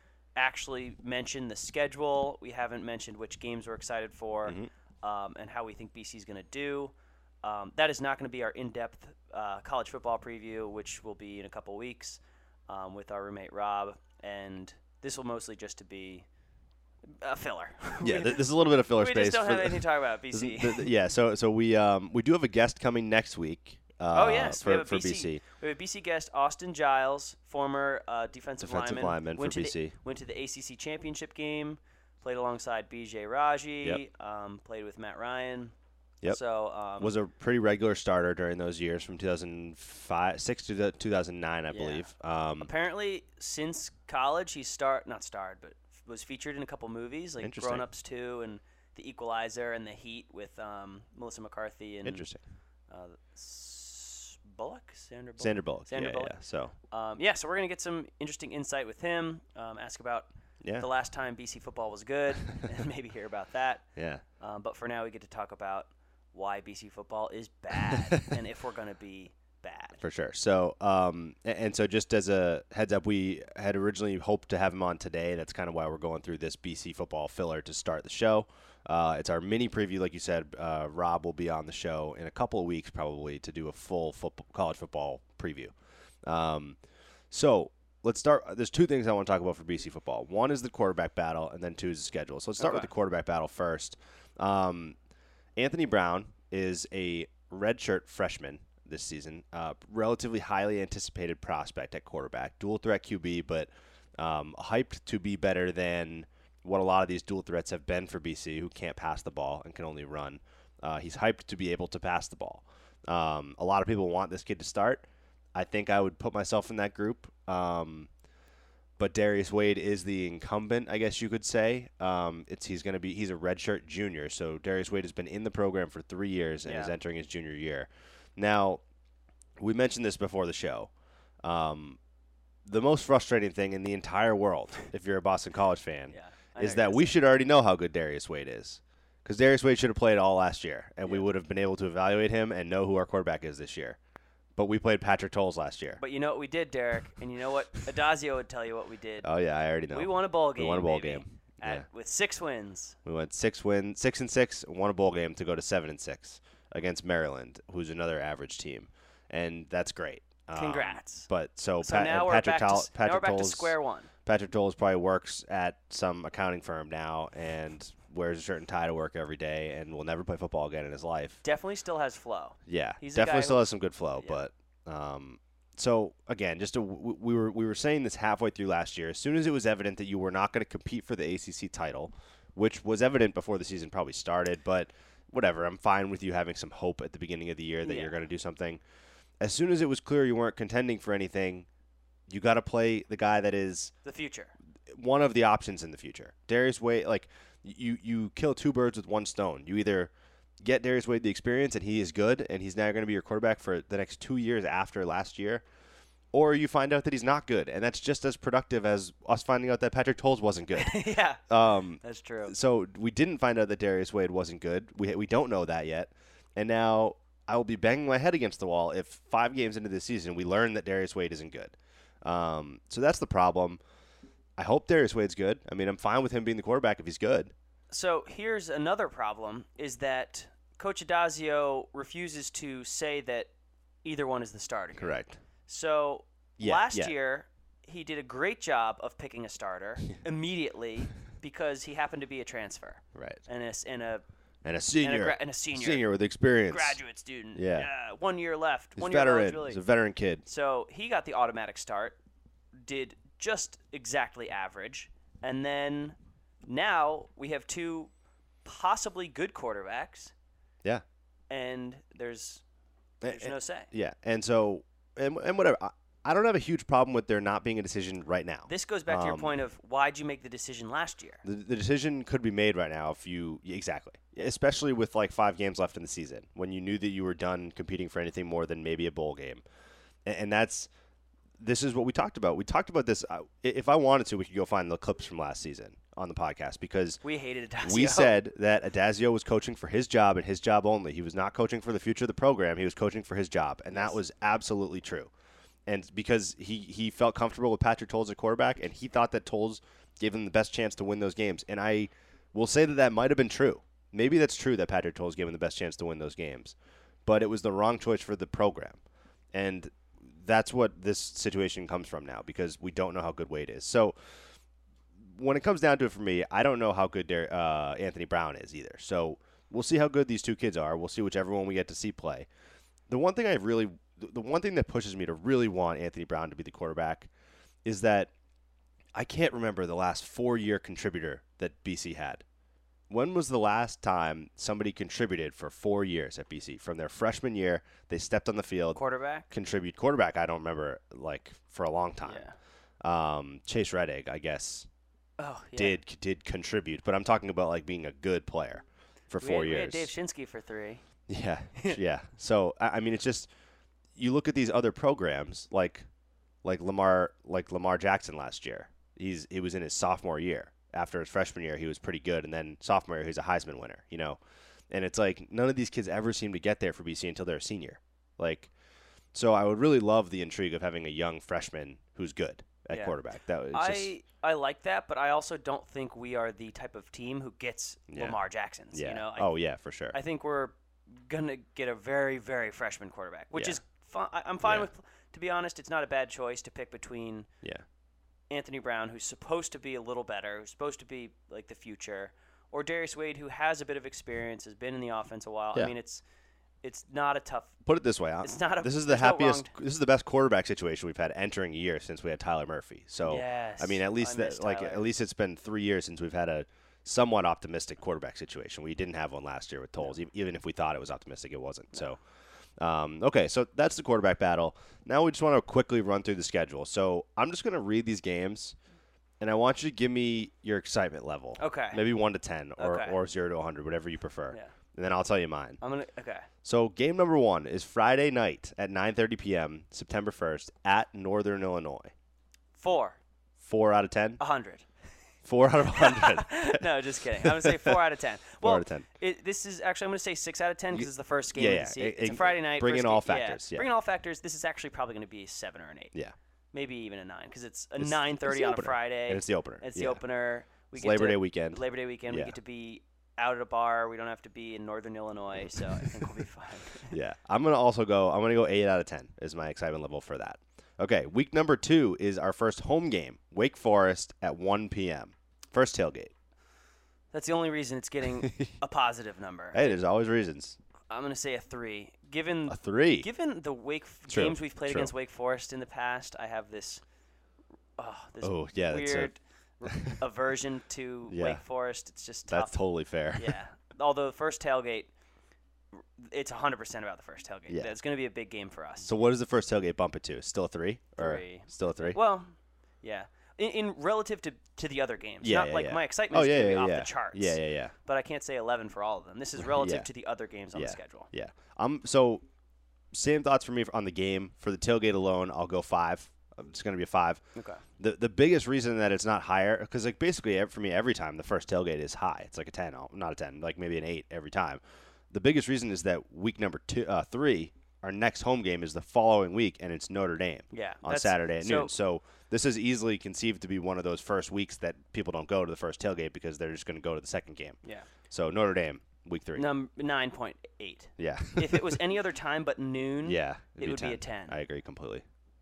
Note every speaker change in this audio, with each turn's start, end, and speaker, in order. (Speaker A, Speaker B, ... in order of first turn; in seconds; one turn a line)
Speaker A: 0.3-16.2
Speaker A: 17.1-20.9
Speaker B: 18.0-25.4
Speaker A: 24.1-35.7
Speaker B: 28.6-29.9
Speaker A: 36.3-37.1
Speaker B: 37.0-42.7
Speaker A: 41.7-42.1
Speaker A: 42.6-52.2
Speaker B: 47.4-47.9
Speaker B: 52.0-52.4
Speaker A: 52.9-60.3
Speaker B: 55.4-56.7
Speaker A: 60.8-63.8
Speaker B: 64.0-64.2
Speaker A: 64.4-70.0
Speaker B: 67.8-68.3
Speaker B: 70.0-85.7
Speaker B: 86.2-86.8
Speaker B: 87.3-95.0
Speaker A: 92.6-92.9
Speaker B: 95.6-118.1
Speaker B: 119.0-128.8
Speaker A: 126.7-126.9
Speaker B: 129.6-130.9
Speaker B: 131.4-132.0
Speaker B: 132.7-144.0
Speaker A: 136.1-137.1
Speaker B: 144.6-146.0
Speaker A: 146.0-149.3
Speaker B: 149.2-151.8
Speaker A: 149.9-153.0
Speaker B: 153.0-171.4
Speaker A: 160.5-161.3
Speaker A: 161.8-164.1
Speaker A: 171.4-173.7
Speaker B: 172.7-188.8
Speaker A: 187.8-188.2
Speaker B: 189.4-191.7
Speaker B: 192.3-193.9
Speaker A: 194.0-194.5
Speaker B: 194.9-200.1
Speaker B: 200.6-205.6
Speaker B: 206.3-223.8
Speaker A: 210.7-211.4
Speaker A: 212.0-212.5
Speaker B: 224.6-227.5
Speaker A: 227.9-233.5
Speaker A: 234.0-235.1
Speaker B: 235.0-235.4
Speaker A: 235.7-244.2
Speaker B: 236.6-237.1
Speaker B: 243.1-243.4
Speaker B: 244.6-247.0
Speaker A: 245.0-246.0
Speaker A: 246.7-249.8
Speaker B: 247.5-247.9
Speaker B: 249.0-250.4
Speaker A: 250.4-252.2
Speaker A: 252.8-258.1
Speaker A: 258.6-260.3
Speaker A: 261.5-262.6
Speaker B: 263.2-269.6
Speaker A: 263.3-263.9
Speaker A: 268.7-271.4
Speaker B: 271.4-279.6
Speaker B: 280.2-280.9
Speaker B: 281.6-287.2
Speaker A: 287.2-288.4
Speaker B: 287.8-295.3
Speaker A: 293.9-294.2
Speaker B: 295.9-306.7
Speaker B: 307.2-309.0
Speaker B: 309.5-314.1
Speaker B: 315.3-322.5
Speaker B: 323.1-327.3
Speaker B: 327.8-328.3
Speaker B: 329.1-332.4
Speaker B: 333.1-342.4
Speaker A: 338.9-339.5
Speaker A: 342.2-342.6
Speaker B: 343.0-344.9
Speaker A: 345.4-346.0
Speaker B: 345.8-350.1
Speaker A: 349.4-351.0
Speaker B: 351.3-353.5
Speaker B: 354.1-356.1
Speaker B: 356.6-364.4
Speaker B: 364.9-368.7
Speaker B: 369.3-374.1
Speaker A: 372.9-373.2
Speaker A: 373.7-379.5
Speaker B: 378.1-378.4
Speaker B: 378.9-380.2
Speaker A: 380.1-387.5
Speaker B: 383.5-383.8
Speaker B: 384.6-384.9
Speaker A: 388.5-396.2
Speaker A: 396.8-397.7
Speaker B: 397.8-412.2
Speaker A: 398.4-399.7
Speaker A: 403.2-405.1
Speaker B: 412.8-418.8
Speaker B: 419.4-425.8
Speaker A: 421.6-422.0
Speaker A: 422.8-423.2
Speaker A: 425.8-426.5
Speaker B: 426.6-432.1
Speaker A: 432.8-433.2
Speaker B: 433.6-434.4
Speaker A: 434.4-434.9
Speaker B: 435.4-438.0
Speaker A: 435.9-446.1
Speaker B: 438.6-439.1
Speaker B: 440.9-443.9
Speaker A: 446.7-457.2
Speaker B: 448.0-450.2
Speaker B: 450.9-452.5
Speaker B: 455.6-456.3
Speaker B: 457.1-466.3
Speaker A: 467.3-470.0
Speaker B: 468.4-468.8
Speaker B: 469.7-470.8
Speaker A: 471.1-477.0
Speaker B: 472.7-473.3
Speaker B: 474.3-475.1
Speaker A: 478.0-482.8
Speaker B: 478.4-479.3
Speaker B: 479.9-480.2
Speaker B: 481.3-481.6
Speaker B: 482.5-483.6
Speaker A: 483.3-485.1
Speaker A: 485.9-489.1
Speaker B: 487.7-487.9
Speaker B: 489.0-492.2
Speaker A: 491.2-501.3
Speaker B: 495.4-497.9
Speaker B: 499.6-500.1
Speaker B: 500.7-502.4
Speaker B: 503.1-507.4
Speaker A: 507.5-507.8
Speaker B: 508.0-514.8
Speaker B: 515.3-527.8
Speaker A: 520.7-521.9
Speaker B: 528.3-529.7
Speaker A: 529.5-534.5
Speaker B: 531.2-532.0
Speaker B: 533.2-535.2